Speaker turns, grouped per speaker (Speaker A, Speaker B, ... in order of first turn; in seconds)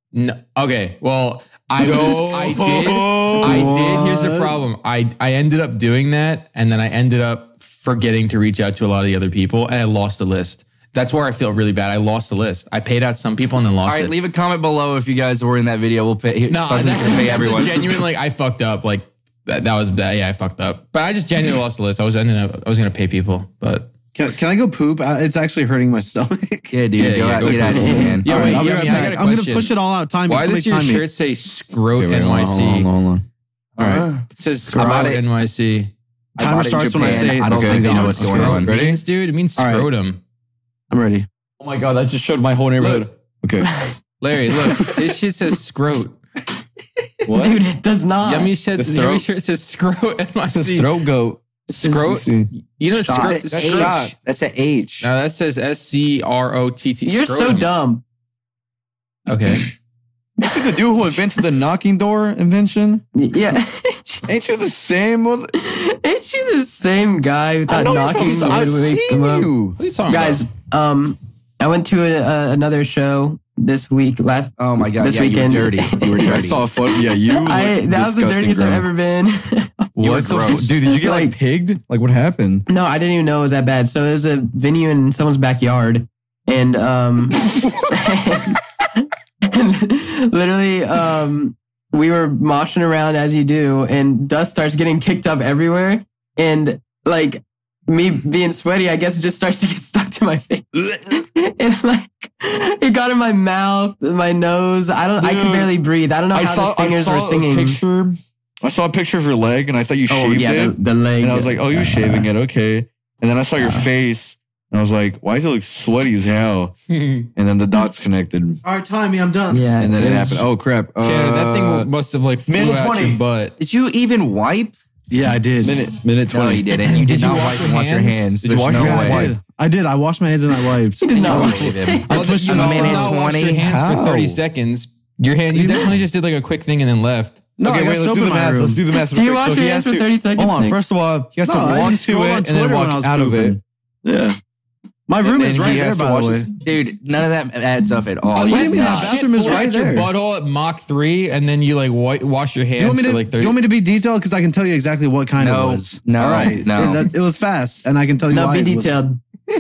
Speaker A: 0.1-14.2, 16.5-23.9, 27.0-32.9, 34.3-35.9, 37.8-40.2, 42.8-43.1, 44.2-46.2, 48.2-50.9, 51.7-54.1, 55.0-57.7, 59.3-59.7, 69.8-70.4, 116.9-117.3, 121.0-123.6, 126.8-128.3, 132.1-137.5, 148.5-153.6
Speaker B: 1.8-3.8, 32.0-33.3, 33.8-34.1, 37.0-39.0, 41.6-43.7, 47.3-47.6, 48.8-49.2, 50.5-52.5, 53.1-54.1, 60.4-63.0, 64.3-65.5, 67.7-69.8, 76.2-78.9, 80.0-82.7, 105.2-105.7, 106.3-116.7, 117.4-118.6, 119.8-121.9, 122.5-123.2, 125.6-126.7, 128.4-129.4, 132.1-134.4, 137.6-143.6, 145.2-146.5
Speaker C: 1.8-4.6, 24.1-26.8, 28.2-31.1, 36.4-38.6, 39.6-39.8, 40.9-41.3, 118.6-119.7, 125.1-125.8, 128.7-133.1, 135.5-135.9, 137.6-138.8, 141.4-144.4, 145.1-146.5, 148.3-150.1, 152.8-159.0
Speaker D: 13.9-17.9, 26.7-28.6, 33.8-35.2, 36.4-38.7, 53.1-55.1, 74.6-76.6, 80.0-80.8, 123.6-124.8, 126.3-129.3, 131.1-133.7, 146.6-149.2, 155.4-157.1
Speaker E: 27.7-28.3, 43.6-43.9, 47.3-48.6, 57.0-58.0, 63.2-64.3, 65.6-69.5, 70.1-76.4, 77.0-79.9, 80.8-81.3, 82.7-88.6, 89.5-107.8, 110.1-112.3, 113.6-113.9, 119.5-120.5, 131.0-132.2, 138.9-140.8, 158.3-159.2